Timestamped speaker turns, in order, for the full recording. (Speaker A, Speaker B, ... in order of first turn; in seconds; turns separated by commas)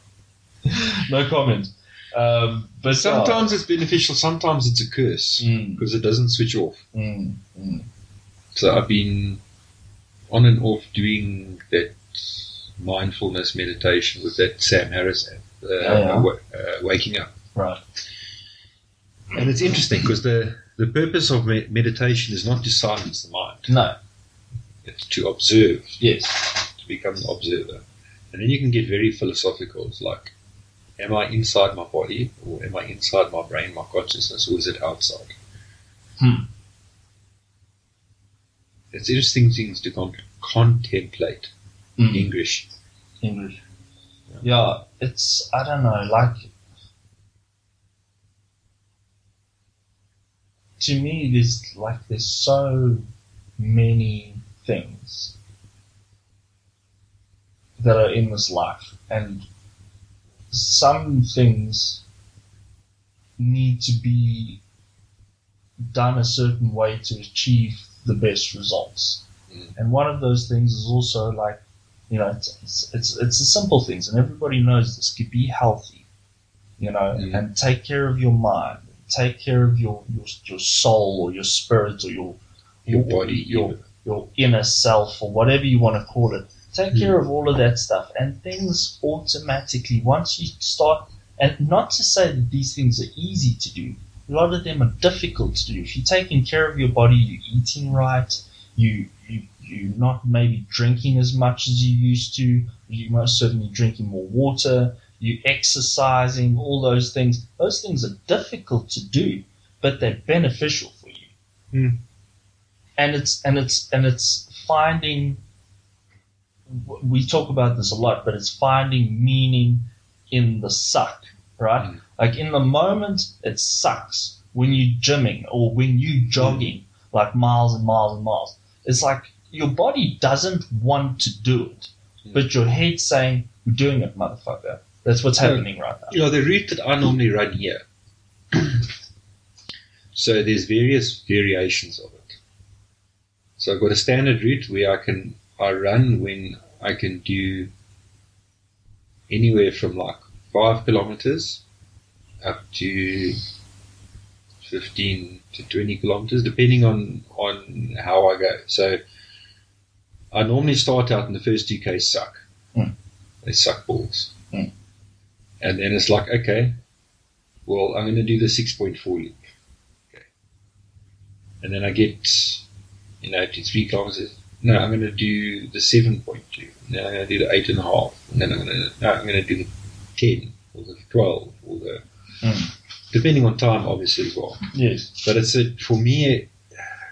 Speaker A: 0.6-3.5, Speaker B: 2.9-6.8, Speaker A: 5.4-5.8, Speaker A: 6.9-7.9, Speaker B: 8.5-9.4, Speaker B: 10.3-17.3, Speaker A: 15.8-16.3, Speaker A: 17.5-17.8, Speaker B: 19.3-23.7, Speaker A: 23.7-23.9, Speaker B: 24.8-26.0, Speaker A: 26.0-26.5, Speaker B: 26.7-30.3, Speaker B: 31.0-35.4, Speaker A: 36.2-36.5, Speaker B: 38.9-41.5, Speaker A: 42.0-42.3, Speaker B: 42.1-42.7, Speaker A: 43.2-43.6, Speaker A: 44.4-46.5, Speaker A: 50.8-53.0, Speaker A: 53.6-55.3, Speaker A: 57.8-59.5, Speaker A: 60.5-62.0, Speaker A: 63.4-64.6, Speaker A: 65.8-69.2, Speaker A: 69.8-76.0, Speaker A: 76.8-111.3, Speaker B: 77.1-77.4, Speaker B: 82.8-83.8, Speaker B: 111.7-112.0, Speaker A: 113.0-115.4, Speaker A: 116.7-136.2, Speaker B: 126.4-126.6, Speaker B: 135.4-137.8, Speaker B: 138.5-138.9, Speaker B: 140.1-142.4, Speaker B: 143.6-147.7, Speaker B: 149.3-151.6, Speaker B: 152.4-153.4, Speaker B: 154.6-159.0, Speaker B: 160.3-162.4, Speaker B: 163.4-164.3, Speaker B: 165.6-166.8, Speaker B: 167.7-169.4, Speaker B: 171.6-172.6, Speaker B: 173.2-182.0, Speaker A: 182.4-182.7, Speaker B: 183.1-184.7, Speaker A: 184.7-185.2, Speaker B: 185.2-186.5